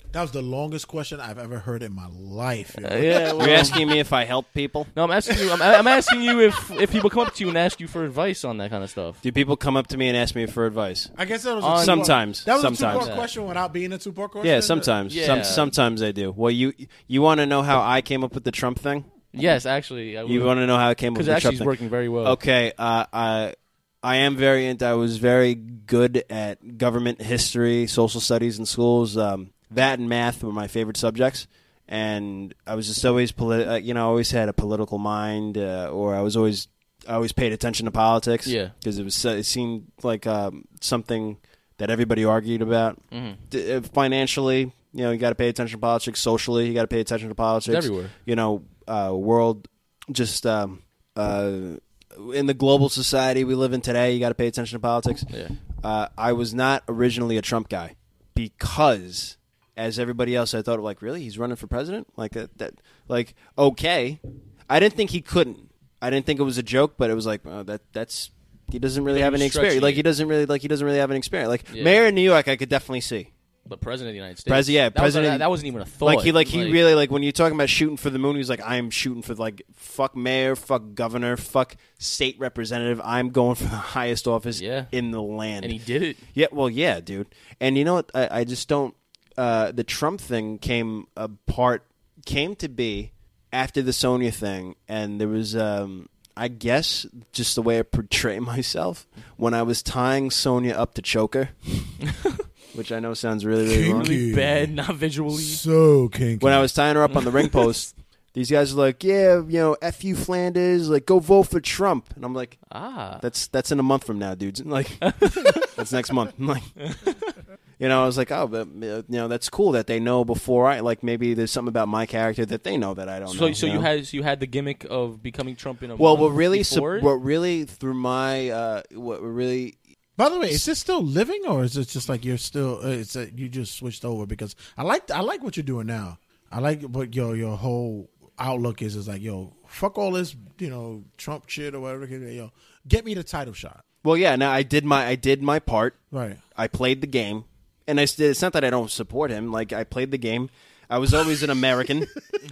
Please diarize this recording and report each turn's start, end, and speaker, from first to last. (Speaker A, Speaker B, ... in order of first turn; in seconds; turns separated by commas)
Speaker A: 0.1-3.9, Speaker B: 2.8-3.9, Speaker C: 3.4-4.9, Speaker B: 4.9-9.2, Speaker A: 5.3-6.1, Speaker C: 9.2-11.1, Speaker A: 11.2-14.9, Speaker B: 11.6-13.3, Speaker C: 11.8-13.1, Speaker C: 14.4-19.1, Speaker B: 15.1-15.7, Speaker B: 19.3-20.6, Speaker C: 20.3-43.0, Speaker B: 21.1-22.4, Speaker B: 38.5-38.7, Speaker B: 43.1-43.4, Speaker C: 43.5-73.3, Speaker B: 47.7-48.1, Speaker B: 55.3-55.6, Speaker B: 69.1-70.0, Speaker B: 71.7-72.0, Speaker B: 73.7-76.8, Speaker C: 74.5-75.5, Speaker C: 76.0-85.7, Speaker B: 84.5-84.9, Speaker B: 85.6-86.2, Speaker C: 86.3-101.9, Speaker C: 102.7-104.1, Speaker A: 103.6-104.7, Speaker B: 103.9-105.6, Speaker A: 105.3-106.7, Speaker C: 106.4-112.6, Speaker B: 112.7-113.2, Speaker C: 113.2-116.7, Speaker B: 115.0-115.7, Speaker B: 116.8-117.3, Speaker C: 117.8-123.9, Speaker B: 123.3-127.1, Speaker C: 126.0-129.8, Speaker A: 130.2-143.8, Speaker C: 144.0-146.0, Speaker A: 146.1-146.4, Speaker C: 146.6-152.1